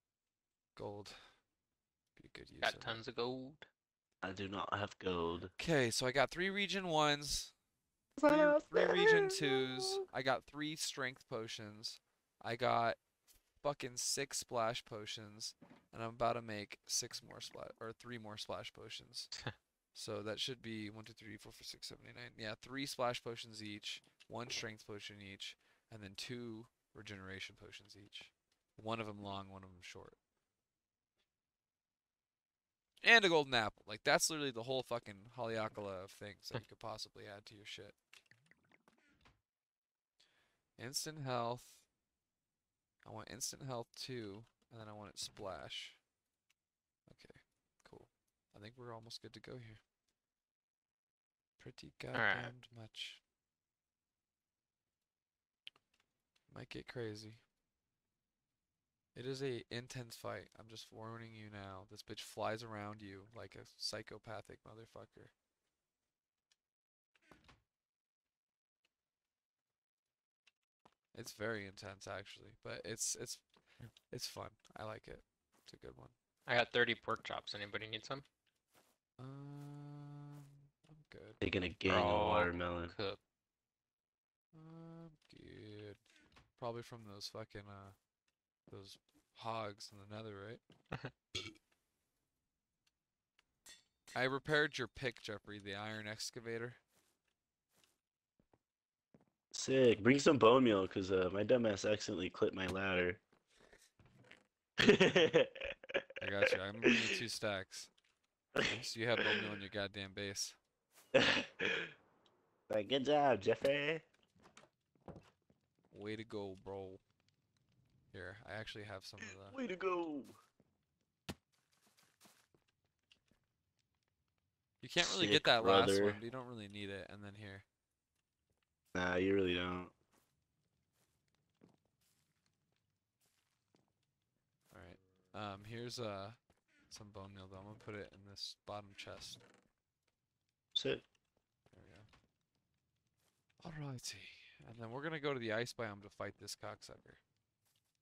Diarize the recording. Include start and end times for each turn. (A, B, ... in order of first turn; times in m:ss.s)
0:00.8-0:01.2 A
0:02.2-0:03.0 A
0:02.6-0:03.7 B
0:04.2-0:05.5 C
0:05.6-0:07.5 A
0:08.2-0:10.0 C
0:08.2-0:13.0 A
0:13.6-0:19.3 A
0:19.9-0:30.2 A
0:33.0-0:38.0 A
0:40.8-0:41.8 A
0:43.0-0:46.0 A
0:47.1-0:49.8 A
0:51.6-0:53.2 A
0:52.1-0:52.5 B
0:56.5-0:57.4 A
0:59.1-1:05.3 A
1:11.1-1:13.4 A
1:14.1-1:16.1 A
1:16.5-1:18.2 B
1:19.2-1:21.4 A
1:21.4-1:22.9 C
1:21.8-1:23.2 B
1:24.5-1:26.0 A
1:26.6-1:28.0 A
1:28.7-1:30.6 A
1:34.1-1:36.8 A
1:39.5-1:43.2 C
1:44.8-1:46.1 C
1:46.2-1:47.9 A
1:46.8-1:47.2 C
1:48.5-1:49.5 C
1:48.6-1:50.6 A
1:51.1-1:51.9 C
1:52.7-1:54.0 C
1:55.9-1:57.0 A
1:58.1-1:59.6 A
1:59.5-2:00.4 C
2:04.8-2:07.6 A
2:05.0-2:06.2 C
2:08.9-2:09.9 C
2:14.7-2:16.4 A
2:16.9-2:19.4 A
2:20.7-2:21.0 C
2:21.7-2:22.1 A
2:23.6-2:27.2 A